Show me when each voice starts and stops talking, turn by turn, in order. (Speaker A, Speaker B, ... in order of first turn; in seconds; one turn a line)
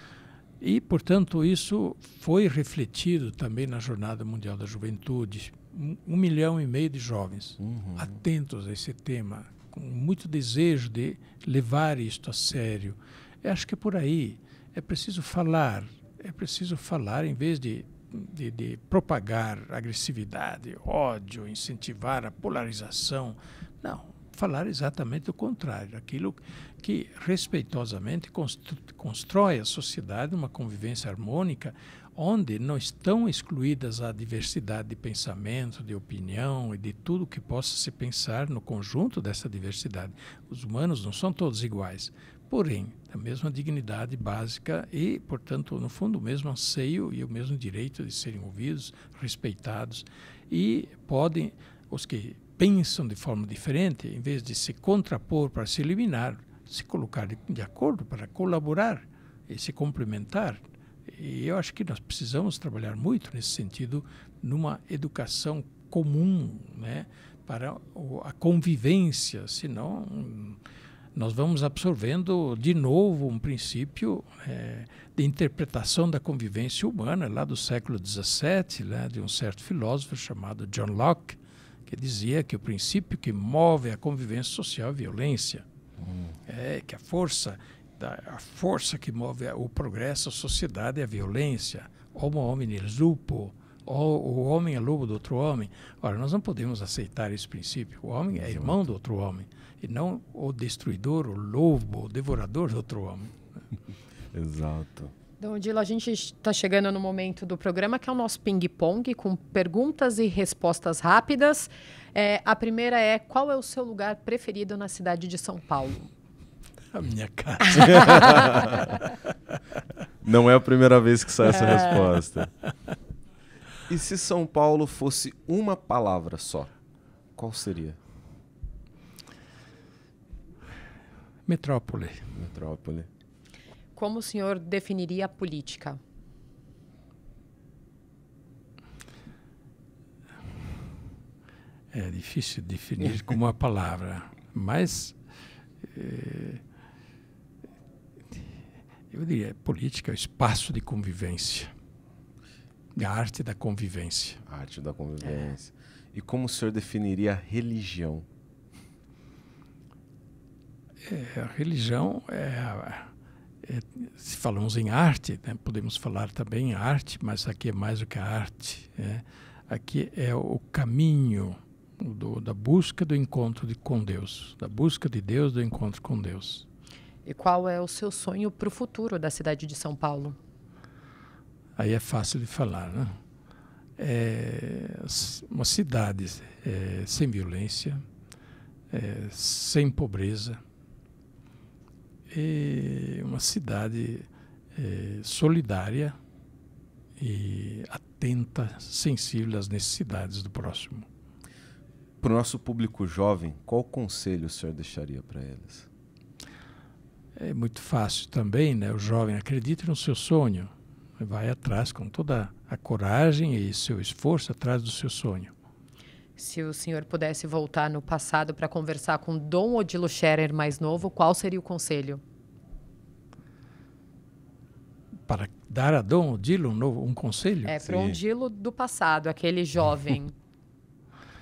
Speaker A: 0.6-70.6
Speaker B: 7.6-8.1
Speaker A: 71.1-85.6
Speaker B: 86.0-86.3
Speaker A: 86.5-103.3
Speaker B: 98.3-98.8
Speaker B: 104.3-105.1
Speaker C: 105.4-116.1
Speaker A: 116.9-119.0
Speaker C: 117.8-118.8
Speaker B: 118.0-118.6
Speaker B: 120.2-122.5
Speaker C: 121.6-122.0
Speaker B: 123.9-126.7
Speaker B: 127.3-128.0
Speaker A: 131.5-132.3
Speaker B: 132.3-133.1
Speaker C: 133.9-136.0
Speaker A: 141.9-145.2
Speaker A: 145.8-146.6
Speaker A: 149.1-151.7
Speaker A: 152.9-154.4
Speaker B: 154.4-158.2
Speaker A: 161.0-163.1
Speaker A: 163.6-176.7
Speaker C: 177.2-180.3
Speaker A: 181.8-183.1
Speaker A: 184.0-188.0
Speaker A: 188.9-190.6
Speaker A: 192.3-196.2
Speaker A: 197.2-201.1
Speaker B: 202.2-205.9
Speaker A: 207.4-215.5
Speaker C: 216.4-222.2
Speaker A: 225.3-227.7
Speaker C: 227.7-230.3
Speaker B: 227.8-228.2